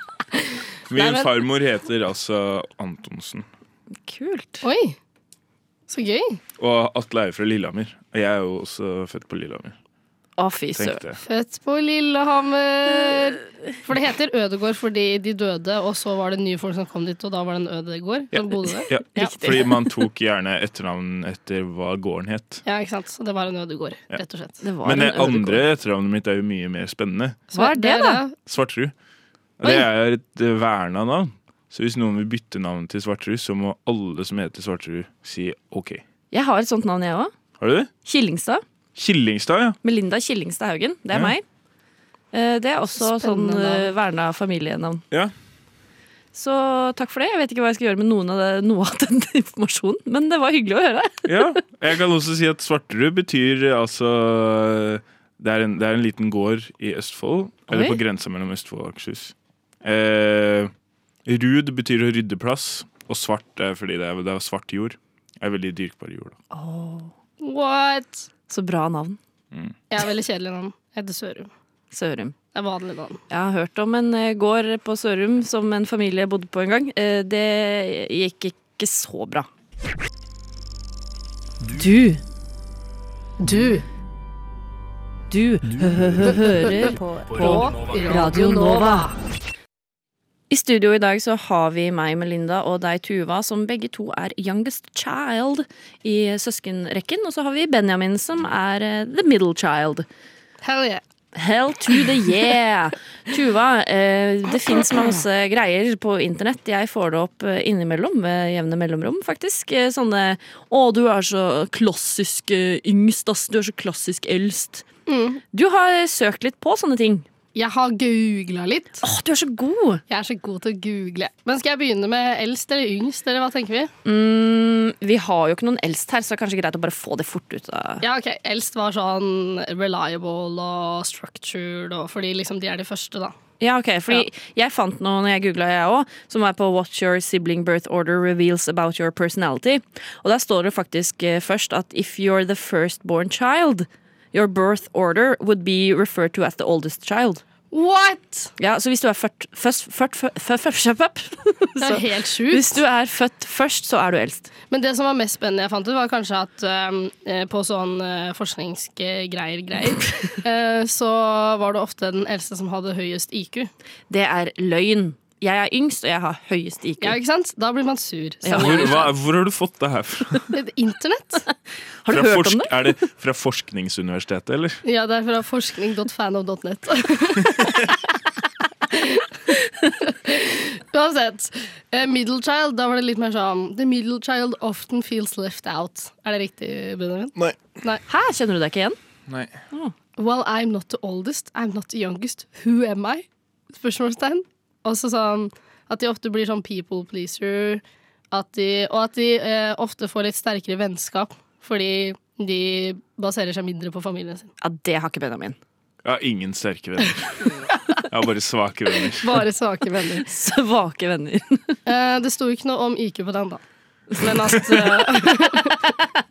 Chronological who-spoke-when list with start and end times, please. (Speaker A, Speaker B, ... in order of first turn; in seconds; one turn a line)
Speaker A: 0.9-3.5
Speaker B: 1.0-1.3
Speaker C: 4.0-4.7
Speaker B: 4.6-5.0
Speaker B: 5.9-6.4
Speaker A: 6.6-9.8
Speaker C: 10.4-11.0
Speaker A: 10.8-11.2
Speaker B: 11.2-19.3
Speaker A: 18.3-22.6
Speaker C: 19.2-19.7
Speaker B: 22.6-24.6
Speaker C: 24.6-25.6
Speaker A: 24.8-27.4
Speaker B: 27.5-28.4
Speaker C: 27.5-28.2
Speaker A: 28.4-28.9
Speaker A: 29.6-36.0
Speaker C: 36.3-37.3
Speaker A: 37.6-37.9
Speaker C: 38.0-38.6
Speaker A: 39.0-39.8
Speaker C: 39.8-41.4
Speaker C: 42.3-45.0
Speaker B: 43.0-43.9
Speaker C: 46.3-51.5
Speaker A: 51.3-60.7
Speaker C: 57.7-58.0
Speaker A: 61.3-66.4
Speaker C: 66.5-67.1
Speaker B: 67.4-68.3
Speaker C: 68.5-69.2
Speaker B: 69.9-71.5
Speaker C: 71.9-72.3
Speaker B: 72.5-73.2
Speaker C: 73.3-79.5
Speaker C: 81.7-82.2
Speaker B: 83.4-83.8
Speaker C: 85.3-89.1
Speaker B: 86.4-89.2
Speaker C: 90.5-100.0
Speaker B: 100.6-101.0
Speaker C: 101.3-114.8
Speaker B: 115.1-115.4
Speaker C: 115.5-117.2
Speaker B: 117.5-119.0
Speaker C: 119.0-120.0
Speaker B: 120.1-123.9
Speaker C: 124.0-128.0
Speaker B: 128.0-133.3
Speaker C: 133.6-147.4
Speaker B: 147.7-148.5
Speaker C: 148.6-154.5
Speaker B: 151.8-152.8
Speaker B: 154.7-163.7
Speaker C: 164.1-167.2
Speaker B: 167.0-169.1
Speaker C: 168.4-169.0
Speaker A: 168.6-170.5
Speaker B: 170.5-171.4
Speaker C: 172.0-173.0
Speaker A: 172.1-174.8
Speaker B: 174.8-178.0
Speaker B: 178.9-188.0
Speaker C: 188.1-189.0
Speaker A: 189.3-189.6
Speaker B: 190.2-204.5
Speaker C: 204.6-205.6
Speaker A: 206.0-207.4
Speaker A: 208.1-209.4
Speaker B: 209.2-210.3
Speaker C: 210.2-211.8
Speaker B: 211.9-213.6
Speaker B: 214.2-215.9